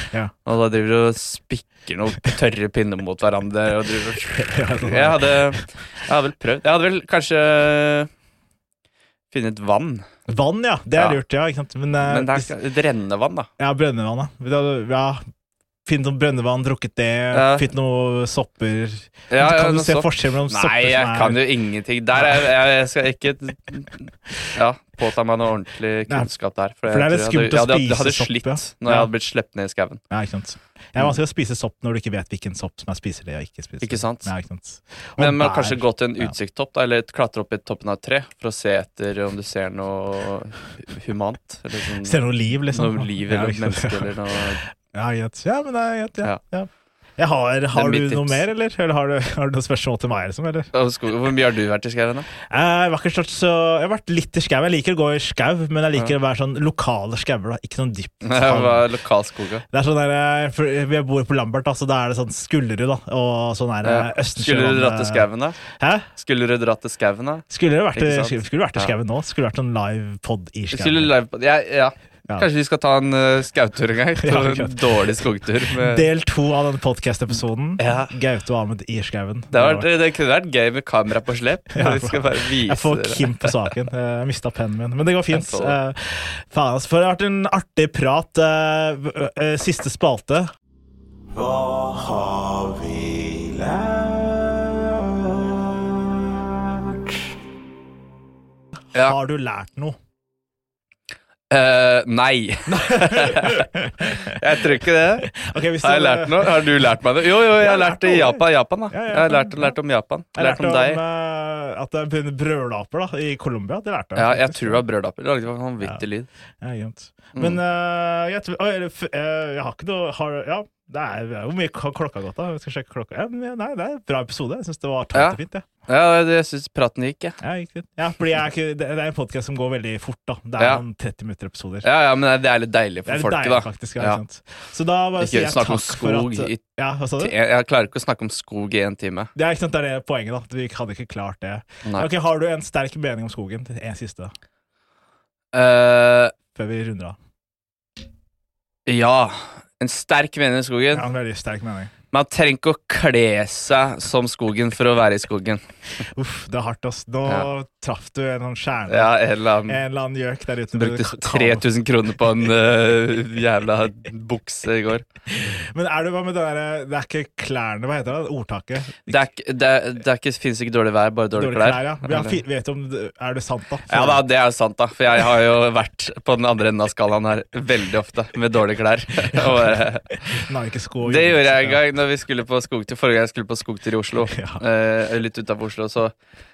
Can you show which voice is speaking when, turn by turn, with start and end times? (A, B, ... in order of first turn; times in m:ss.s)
0:00.4-0:08.1 A
0:04.3-0:05.6 B
0:09.3-0:10.0 A
0:10.3-0:12.5 B
0:12.0-0:13.5 A
0:13.6-0:15.2 B
0:15.9-0:21.5 B
0:17.3-0:17.7 A
0:19.3-0:30.0 A
0:22.2-0:22.5 B
0:26.9-0:29.1 B
0:30.1-0:36.4 B
0:33.8-0:34.3 A
0:35.2-0:44.6 A
0:42.0-0:44.2 B
0:44.9-0:50.7 B
0:47.7-0:48.5 A
0:50.7-0:52.3 A
0:52.5-0:58.9 B
0:58.2-0:59.6 A
0:59.7-1:06.1 B
1:03.8-1:05.6 A
1:06.2-1:08.9 A
1:07.5-1:11.1 B
1:10.7-1:16.1 A
1:14.2-1:14.8 B
1:15.8-1:19.9 B
1:17.8-1:18.1 A
1:19.5-1:23.7 A
1:21.7-1:30.5 B
1:25.3-1:25.8 A
1:31.6-1:33.5 C
1:39.0-1:40.0 B
1:41.5-1:51.0 A
1:42.8-1:44.4 B
1:45.2-1:46.7 B
1:47.6-1:49.8 B
1:50.4-1:54.8 B
1:54.2-1:56.3 A
1:56.6-2:05.7 B
1:57.4-1:57.6 A
2:05.1-2:07.4 A
2:07.4-2:11.9 B
2:11.8-2:14.2 A
2:13.1-2:17.4 B
2:15.2-2:16.6 A
2:17.2-2:19.3 A
2:19.4-2:24.3 B
2:25.5-2:26.3 A
2:26.6-2:27.2 B
2:28.9-2:31.1 A
2:30.9-2:31.9 B
2:32.1-2:35.6 A
2:36.2-2:39.2 B
2:38.9-2:39.8 A
2:39.7-2:41.6 B
2:40.8-2:45.0 A
2:45.3-2:49.3 B
2:49.1-2:52.4 A
2:51.3-2:54.2 B
2:53.9-3:00.4 A
2:59.3-2:59.6 B
3:00.3-3:01.8 B
3:01.0-3:06.1 A
3:04.3-3:04.6 B